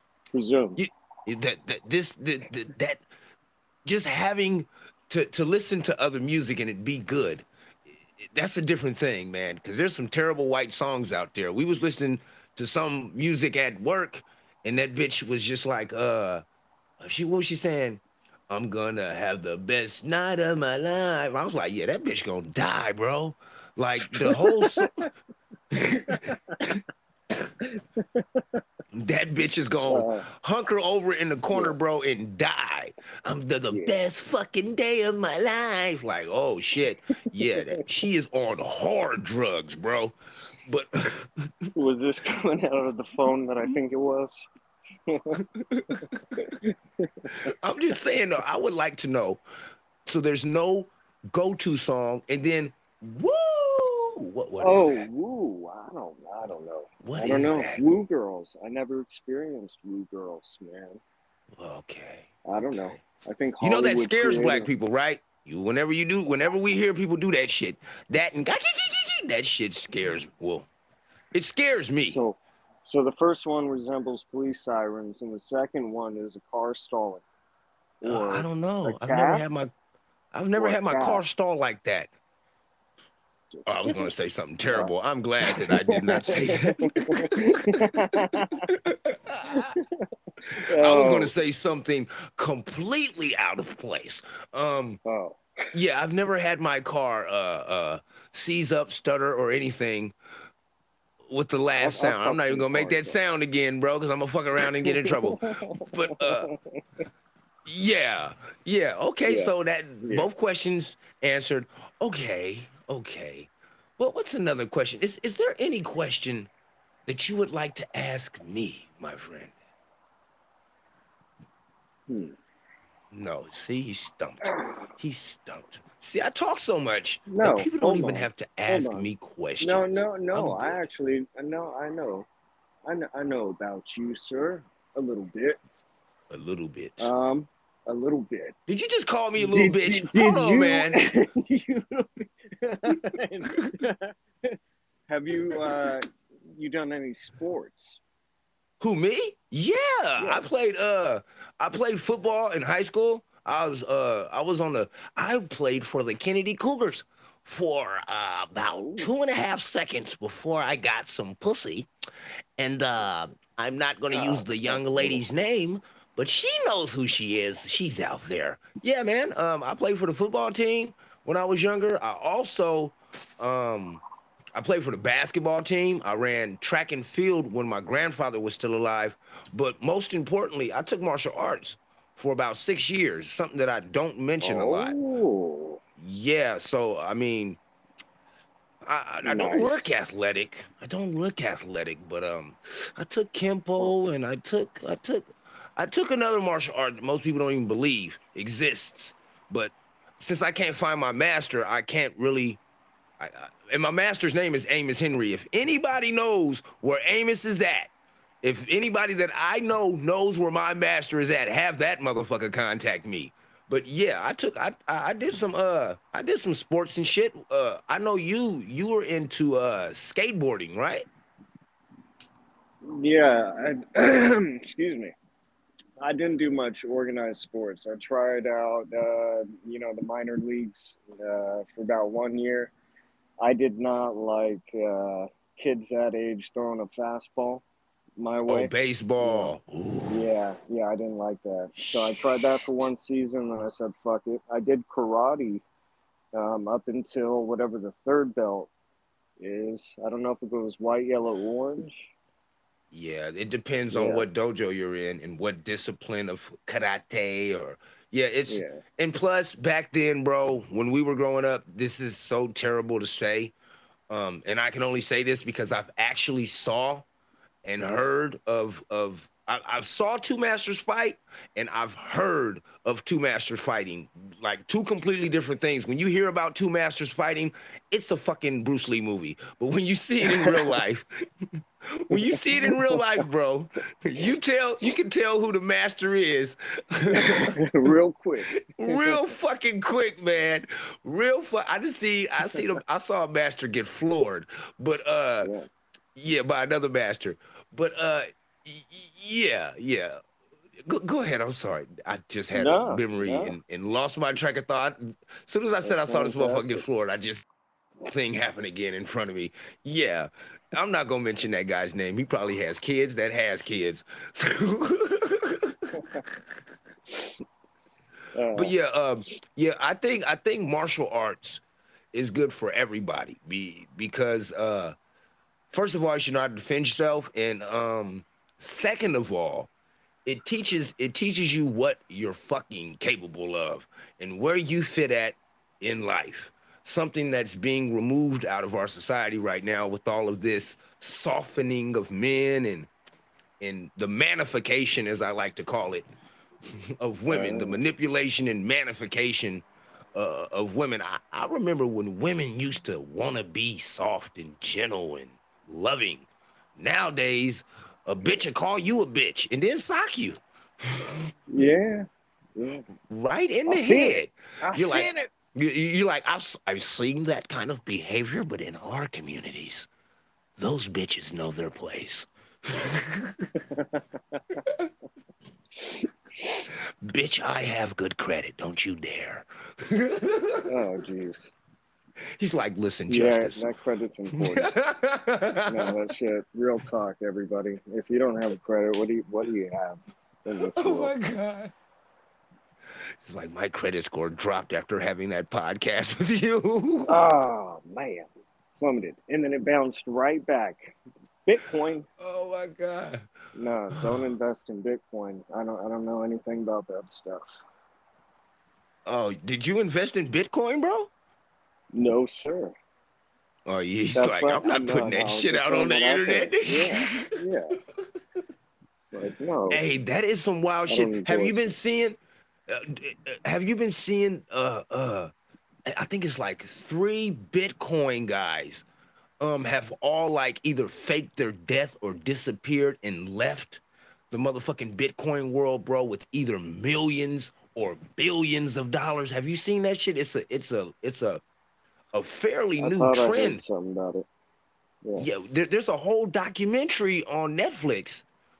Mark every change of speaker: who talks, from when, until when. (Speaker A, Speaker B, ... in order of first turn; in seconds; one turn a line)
Speaker A: 0.3-0.8
Speaker B: 0.8-3.0
Speaker B: 3.8-7.5
Speaker B: 8.2-16.4
Speaker B: 17.0-25.1
Speaker A: 24.1-25.1
Speaker B: 25.7-26.8
Speaker A: 26.1-26.5
Speaker A: 27.6-28.6
Speaker B: 28.9-41.5
Speaker A: 29.9-30.2
Speaker A: 31.5-31.8
Speaker A: 33.7-34.0
Speaker A: 37.5-37.8
Speaker A: 41.7-44.5
Speaker A: 45.1-45.4
Speaker B: 45.3-46.4
Speaker A: 46.4-47.5
Speaker B: 47.4-49.4
Speaker B: 50.0-55.1
Speaker A: 54.6-61.0
Speaker B: 57.0-57.8
Speaker B: 61.6-63.0
Speaker A: 62.4-64.7
Speaker B: 63.6-70.7
Speaker B: 71.3-72.2
Speaker A: 72.0-77.2
Speaker A: 78.0-79.4
Speaker B: 78.0-79.7
Speaker B: 80.3-82.1
Speaker A: 80.6-81.2
Speaker A: 83.5-84.1
Speaker B: 83.7-89.7
Speaker A: 85.4-88.7
Speaker A: 89.5-89.8
Speaker A: 90.5-91.3
Speaker B: 90.8-95.0
Speaker A: 95.0-95.4
Speaker B: 95.7-100.1
Speaker B: 101.3-106.5
Speaker A: 101.8-103.2
Speaker A: 104.8-106.6
Speaker B: 107.7-116.5
Speaker A: 109.2-109.5
Speaker A: 110.0-110.3
Speaker B: 117.0-119.5
Speaker A: 122.1-122.3
Speaker B: 123.1-130.9
Speaker A: 127.3-132.3
Speaker A: 132.8-135.6
Speaker B: 136.3-137.1
Speaker A: 137.0-138.6
Speaker B: 138.7-141.0
Speaker A: 139.4-148.0
Speaker B: 148.8-161.9
Speaker A: 150.2-150.5
Speaker A: 158.7-159.1
Speaker B: 162.6-174.0
Speaker A: 164.1-165.2
Speaker B: 174.5-185.0
Speaker A: 184.4-185.8
Speaker B: 186.0-187.6
Speaker B: 188.8-202.6
Speaker A: 189.2-189.9
Speaker B: 203.2-207.9
Speaker B: 208.4-221.1
Speaker A: 222.8-225.1
Speaker A: 226.0-232.7
Speaker A: 233.4-237.6
Speaker A: 238.2-239.5
Speaker B: 238.4-240.3
Speaker A: 240.1-245.6
Speaker B: 241.8-242.9
Speaker A: 246.3-248.7
Speaker A: 249.4-252.1
Speaker B: 252.9-263.5
Speaker A: 253.9-254.2
Speaker A: 258.5-258.8
Speaker B: 264.1-267.1
Speaker B: 267.6-281.2
Speaker A: 280.2-280.8
Speaker B: 281.9-287.6
Speaker A: 282.1-283.0
Speaker A: 287.1-289.2
Speaker B: 288.7-295.5
Speaker A: 295.4-295.7
Speaker B: 296.1-300.2
Speaker B: 300.9-307.4
Speaker A: 302.5-303.6
Speaker A: 305.8-306.8
Speaker B: 308.1-316.4
Speaker A: 318.3-318.7
Speaker B: 318.5-321.6
Speaker B: 322.1-324.9
Speaker B: 325.7-329.7
Speaker B: 330.2-342.9
Speaker B: 343.6-346.1
Speaker B: 346.7-349.6
Speaker A: 347.3-347.8
Speaker B: 350.1-361.2
Speaker A: 361.5-362.9
Speaker B: 363.1-369.9
Speaker A: 363.7-365.3
Speaker B: 370.6-373.6
Speaker A: 373.6-374.6
Speaker A: 375.8-376.6
Speaker B: 377.1-380.7
Speaker A: 380.7-381.5
Speaker B: 382.4-383.7
Speaker A: 383.1-384.7
Speaker B: 384.3-386.1
Speaker A: 385.7-391.1
Speaker B: 390.6-391.7
Speaker B: 393.2-397.5
Speaker A: 397.1-402.1
Speaker B: 402.2-403.3
Speaker A: 403.5-407.5
Speaker B: 403.9-404.3
Speaker B: 409.1-411.1
Speaker A: 411.9-412.7
Speaker B: 413.7-417.3
Speaker A: 414.1-417.8
Speaker A: 419.1-419.8
Speaker B: 419.7-425.3
Speaker A: 420.9-421.8
Speaker B: 425.9-428.8
Speaker B: 429.4-441.4
Speaker B: 442.1-443.6
Speaker A: 442.8-444.2
Speaker B: 445.1-448.2